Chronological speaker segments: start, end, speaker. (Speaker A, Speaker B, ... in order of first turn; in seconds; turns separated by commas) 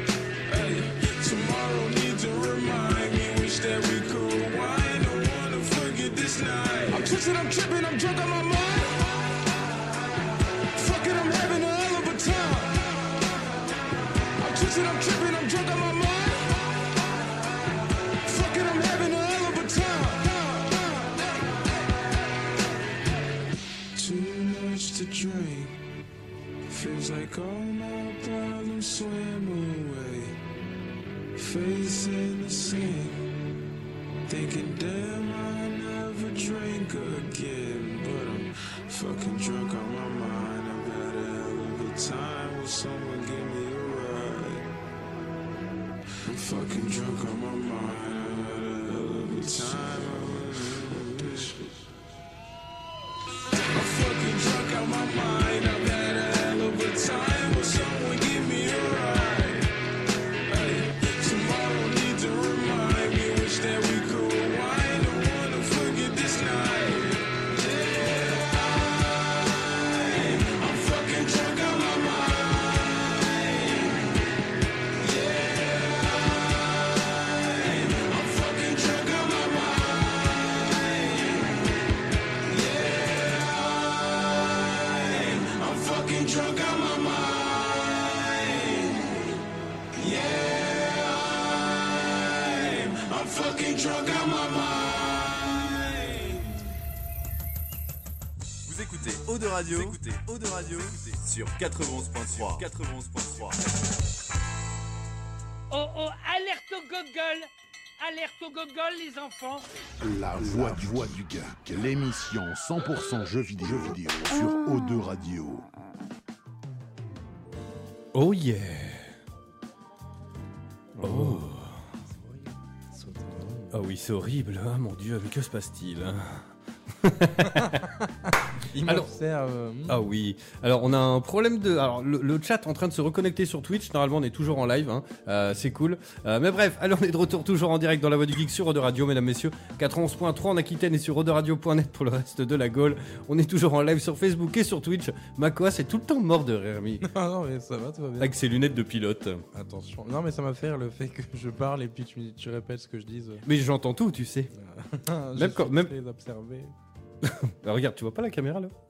Speaker A: 0.5-9.1, Speaker A: 10.7-13.0, Speaker A: 14.4-16.6, Speaker A: 18.2-21.3, Speaker A: 23.9-25.8, Speaker A: 26.7-30.4, Speaker A: 31.4-33.2, Speaker A: 34.3-44.7, Speaker A: 46.2-51.7, Speaker A: 53.7-59.7, Speaker A: 60.5-74.1, Speaker A: 75.0-76.7, Speaker A: 77.2-81.5, Speaker A: 82.5-89.3, Speaker A: 90.0-96.5, Speaker B: 98.7-103.6, Speaker C: 105.7-109.7, Speaker D: 110.0-115.7, Speaker E: 118.1-119.0, Speaker F: 121.0-121.4, Speaker E: 121.0-121.8, Speaker F: 122.2-123.7, Speaker E: 123.7-126.4, Speaker E: 127.0-127.8, Speaker F: 128.6-130.0, Speaker E: 129.9-147.1, Speaker F: 147.0-148.4, Speaker E: 148.2-149.4, Speaker F: 149.5-153.4, Speaker E: 153.5-154.5, Speaker F: 154.6-156.7, Speaker E: 155.4-155.9, Speaker E: 157.2-158.7